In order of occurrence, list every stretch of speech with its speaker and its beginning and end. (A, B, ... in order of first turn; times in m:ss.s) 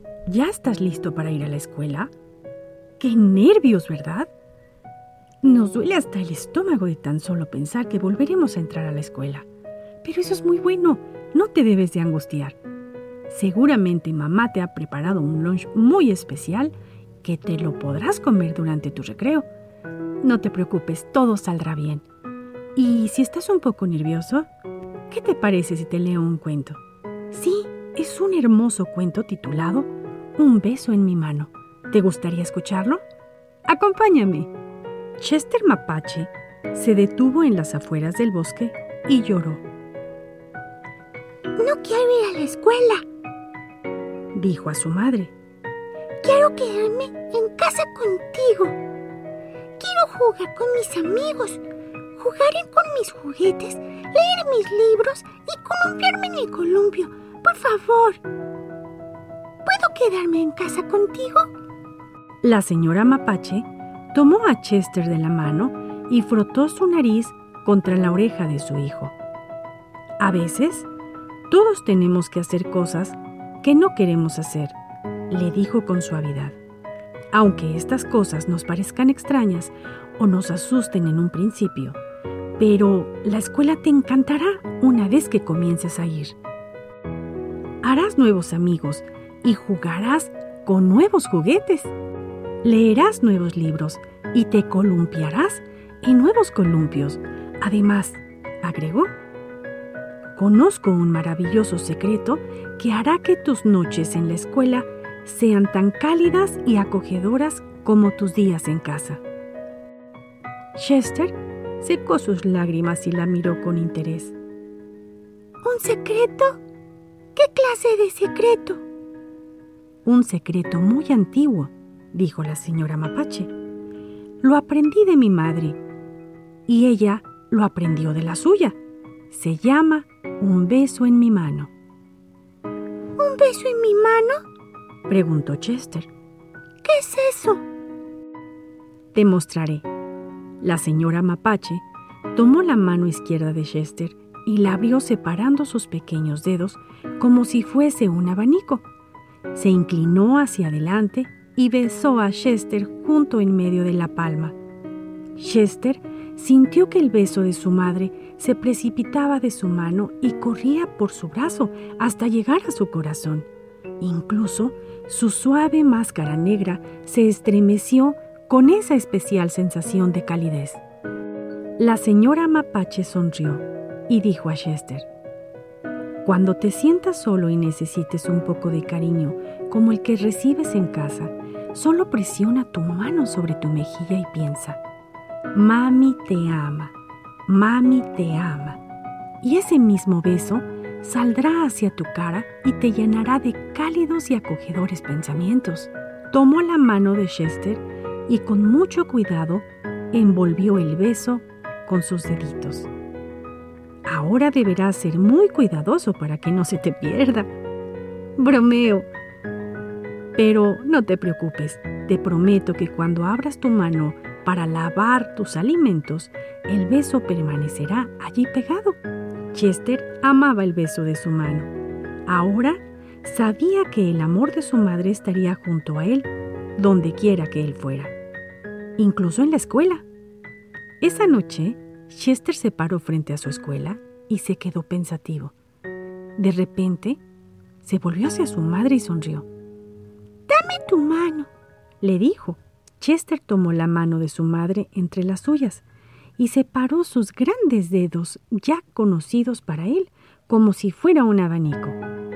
0:00.2-0:02.1 A
0:03.0-0:04.3 A
0:05.4-0:09.5 A
0:10.0-0:12.6 A
0:13.3-0:19.5 A
0:20.2-0:22.0 A
0:22.8-0:24.5 A
0:25.1-0:26.8 A
0:27.3-0:33.0 A
0:33.6-0:34.5 A
0:35.2-0:39.6 A
0:41.6-0:43.0 B
0:41.7-0:42.6 A
0:44.3-0:45.3 A
0:46.2-0:48.8 B
0:46.2-0:48.6 A
0:49.8-0:51.6 A
0:49.8-0:51.6 B
0:52.2-0:52.5 B
0:52.2-0:58.2 A
0:53.2-0:57.1 B
0:59.6-1:01.5 A
1:02.4-1:09.1 A
1:10.2-1:10.9 A
1:11.5-1:14.8 A
1:15.3-1:16.6 A
1:17.3-1:22.0 A
1:22.6-1:26.4 A
1:27.8-1:31.9 A
1:32.6-1:39.1 A
1:40.4-1:49.2 A
1:50.7-1:54.4 A
1:55.6-1:56.6 A
1:57.3-1:58.8 A
2:00.0-2:03.5 A
2:04.4-2:05.8 A
2:06.7-2:08.8 A
2:09.3-2:11.7 A
2:13.2-2:14.4 B
2:13.2-2:14.0 A
2:15.1-2:16.1 A
2:16.8-2:17.6 B
2:16.8-2:17.4 A
2:19.1-2:19.9 A
2:20.6-2:21.8 A
2:22.3-2:28.8 A
2:29.5-2:34.6 A
2:35.4-2:43.5 A
2:44.0-2:50.8 A
2:51.8-2:55.1 A
2:56.2-3:04.8 A
3:05.5-3:06.9 A
3:07.5-3:08.8 A
3:09.4-3:22.9 A
3:24.0-3:27.5 A
3:28.4-3:29.1 A
3:30.4-3:39.0 A
3:39.5-3:41.7 A
3:42.2-3:48.1 A
3:49.0-3:50.0 A
3:51.0-3:55.5 A
3:56.4-3:57.2 A
3:57.8-3:59.5 A
4:00.5-4:01.5 A
4:02.0-4:05.8 A
4:06.4-4:12.0 A